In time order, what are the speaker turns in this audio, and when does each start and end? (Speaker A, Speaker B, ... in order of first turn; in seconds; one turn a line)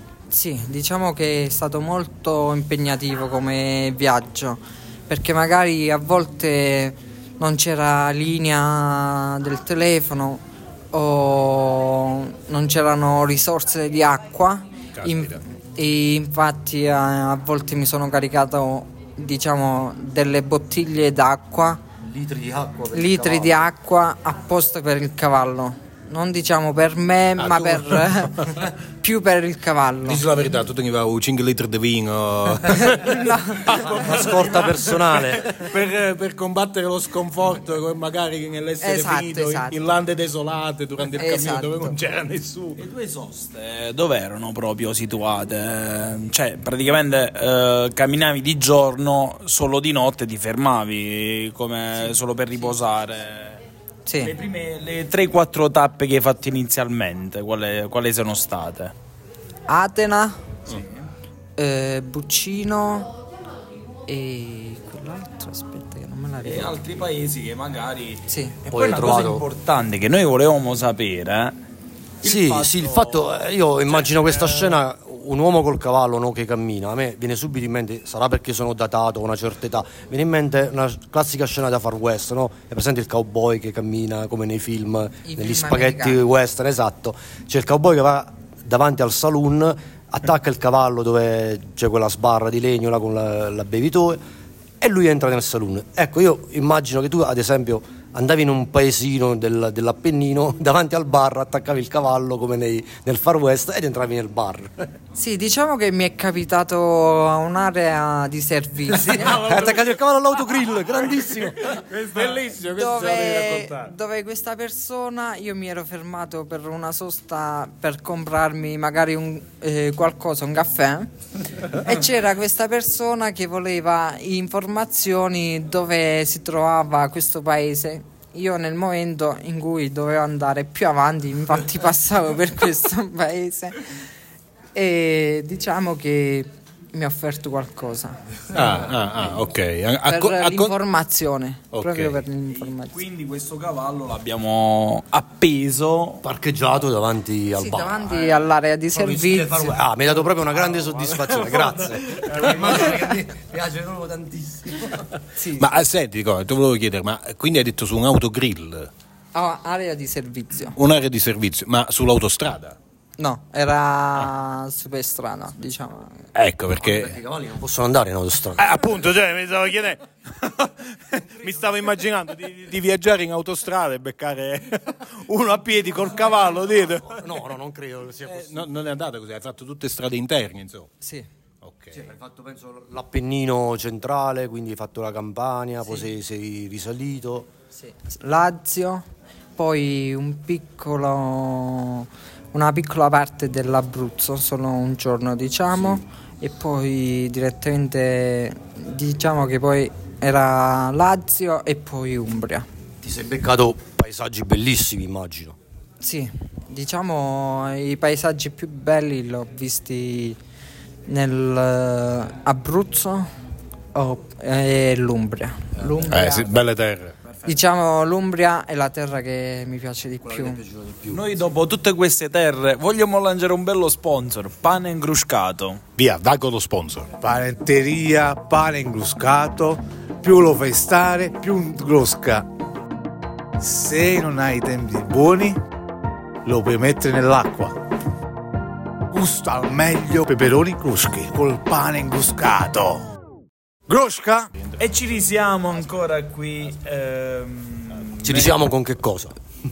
Speaker A: 0.3-21.8
Speaker B: 15.0-15.4
Speaker C: 22.0-23.6
Speaker A: 22.9-30.3
Speaker B: 27.4-28.1
Speaker B: 30.1-42.8
Speaker A: 32.8-34.1
Speaker C: 34.0-35.5
Speaker A: 38.8-40.0
Speaker A: 41.1-42.0
Speaker D: 42.8-53.6
Speaker A: 54.1-54.3
Speaker D: 54.2-58.9
Speaker A: 59.7-60.4
Speaker A: 61.6-63.1
Speaker A: 64.1-66.8
Speaker D: 66.4-71.6
Speaker A: 68.3-68.6
Speaker C: 68.7-69.5
Speaker D: 72.2-73.4
Speaker C: 72.2-94.2
Speaker D: 73.9-74.8
Speaker A: 85.2-86.2
Speaker C: 94.8-104.9
Speaker A: 105.2-109.5
Speaker C: 108.9-111.8
Speaker B: 109.2-109.8
Speaker B: 111.7-113.9
Speaker A: 112.6-121.1
Speaker A: 121.6-133.8
Speaker A: 134.7-138.2
Speaker B: 138.5-140.7
Speaker A: 140.1-143.0
Speaker B: 141.7-142.2
Speaker D: 142.5-146.2
Speaker C: 146.2-148.3
Speaker A: 147.6-149.8
Speaker C: 148.9-155.1
Speaker D: 150.1-153.1
Speaker A: 155.4-155.8
Speaker B: 155.6-158.9
Speaker A: 159.3-160.8
Speaker B: 160.8-162.8
Speaker A: 163.2-166.2
Speaker B: 166.3-167.2
Speaker C: 166.8-168.8
Speaker B: 168.6-177.2
Speaker C: 177.2-178.7
Speaker B: 178.3-180.9
Speaker A: 181.0-181.3
Speaker B: 181.6-182.0
Speaker C: 181.9-187.5
Speaker A: 187.7-189.1
Speaker A: 189.6-202.7
Speaker C: 203.0-205.6
Speaker A: 206.0-210.4
Speaker A: 211.1-213.3
Speaker A: 213.9-216.6
Speaker B: 216.1-217.1
Speaker A: 217.5-220.6
Speaker C: 220.2-221.4
Speaker D: 221.1-225.8
Speaker B: 226.0-227.2
Speaker E: 227.2-232.4
Speaker E: 233.6-235.6
Speaker E: 236.5-237.8
Speaker E: 239.1-243.0
Speaker E: 243.9-244.5
Speaker B: 244.6-245.1
Speaker D: 244.8-248.7
Speaker C: 248.2-249.3